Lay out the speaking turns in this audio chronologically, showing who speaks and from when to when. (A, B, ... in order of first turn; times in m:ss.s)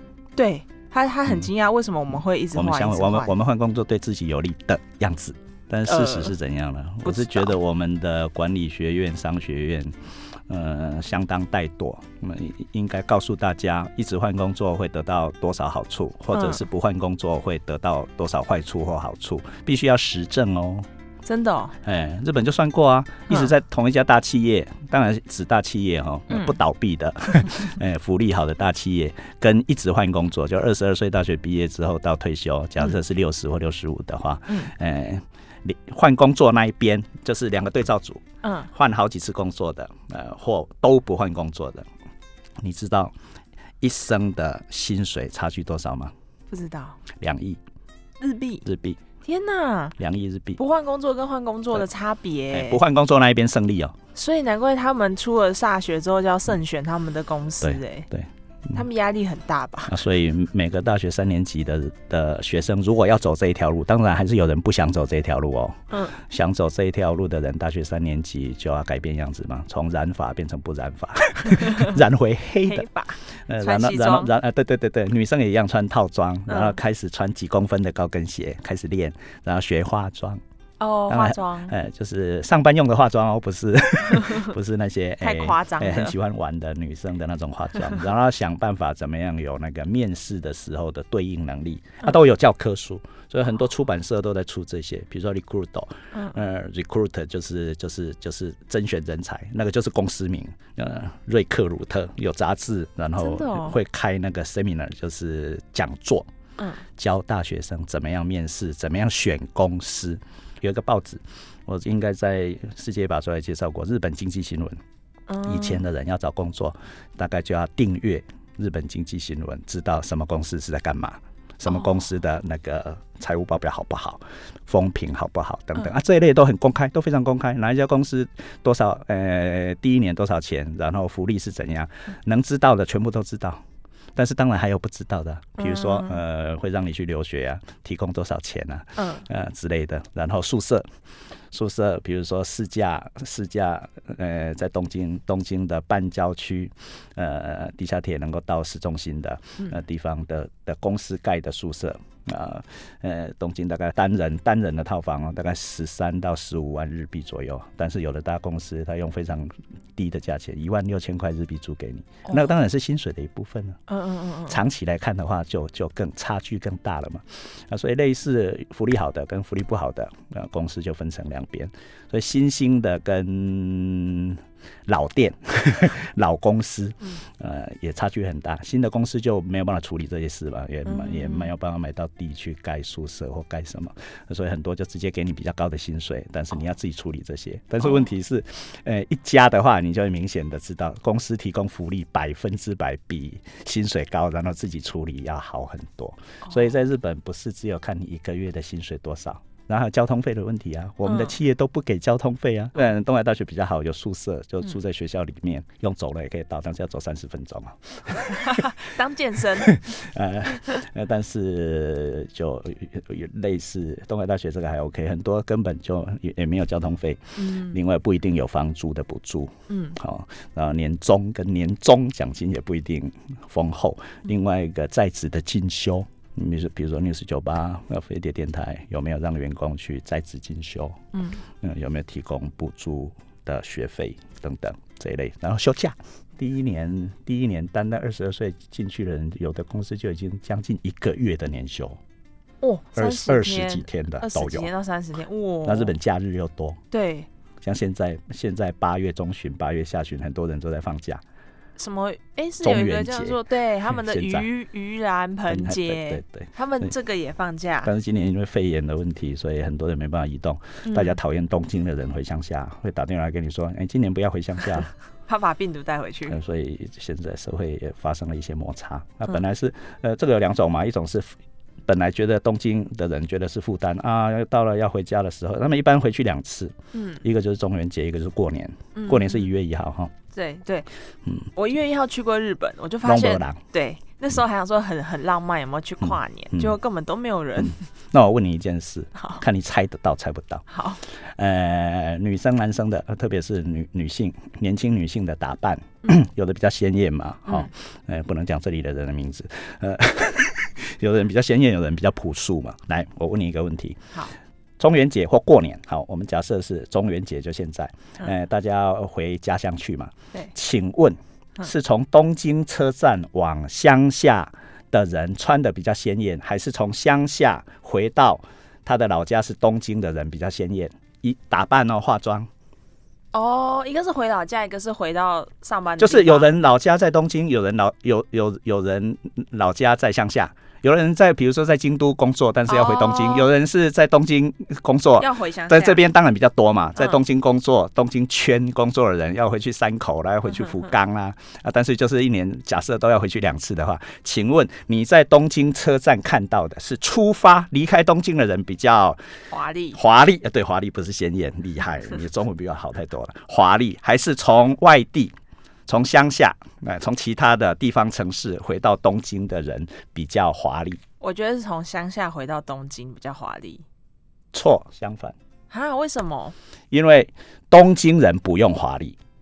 0:00.4-0:03.3 A
0:02.5-0:09.9 B
0:05.9-0:06.3 A
0:07.0-0:07.5 A
0:10.5-0:20.9 B
0:16.3-0:16.6 A
0:21.2-0:21.7 A
0:21.8-0:41.9 B
0:26.3-0:26.6 A
0:38.4-0:38.7 A
0:42.6-0:43.1 B
0:43.8-0:46.1 B
0:46.5-0:47.0 A
0:47.2-0:47.6 B
0:48.2-0:48.6 A
0:48.6-0:49.0 B
0:49.2-0:50.0 A
0:50.0-0:50.6 B
0:50.6-0:52.8 A
0:52.5-0:54.0 B
0:54.1-0:58.1 A
0:57.6-0:58.8 B
0:58.7-1:00.0 A
0:59.9-1:12.9 B
1:05.9-1:06.2 A
1:11.5-1:12.0 A
1:12.6-1:14.3 A
1:13.5-1:20.4 B
1:16.5-1:16.8 A
1:20.8-1:21.7 A
1:21.1-1:46.3 B
1:25.2-1:26.2 A
1:36.1-1:36.4 A
1:43.2-1:43.8 A
1:47.0-1:54.8 B
1:55.3-1:55.8 A
1:55.4-2:13.6 B
2:01.7-2:02.0 A
2:14.1-2:20.8 B
2:15.6-2:16.2 A
2:19.0-2:19.2 A
2:21.5-2:43.8 B
2:42.2-2:42.5 A
2:43.9-2:44.6 A
2:44.5-3:28.6 B
3:00.8-3:01.5 A
3:07.8-3:08.1 A
3:21.0-3:21.4 A
3:28.3-3:29.8 A
3:29.6-3:51.0 B
3:37.4-3:37.8 A
3:39.7-3:40.0 A
3:51.1-3:51.4 A
3:51.6-4:02.0 B
4:02.6-4:05.9 A
4:02.9-4:04.7 B
4:05.6-4:06.8 B
4:06.9-4:07.3 A
4:07.6-4:11.2 B
4:11.8-4:17.9 A
4:12.6-4:14.5 B
4:15.5-4:16.9 B
4:17.8-4:24.9 B
4:20.8-4:21.2 A
4:25.3-4:26.4 A
4:26.3-4:31.3 B
4:31.8-4:40.1 B
4:36.9-4:37.2 A
4:38.9-4:39.5 A
4:40.3-4:40.9 A
4:41.5-4:47.8 A
4:43.0-4:43.6 B
4:46.0-4:46.8 B
4:47.6-5:04.1 B
4:49.2-4:49.4 A
4:50.7-4:51.0 A
5:04.8-5:22.5 B
5:23.3-5:26.5 A
5:26.0-5:49.2 B
5:32.7-5:33.5 A
5:35.2-5:36.0 A
5:49.5-5:50.0 A
5:49.9-5:55.3 B
5:55.9-6:01.0 B
6:01.2-6:03.8 A
6:04.5-6:05.4 B
6:05.7-6:06.5 A
6:06.9-6:09.2 B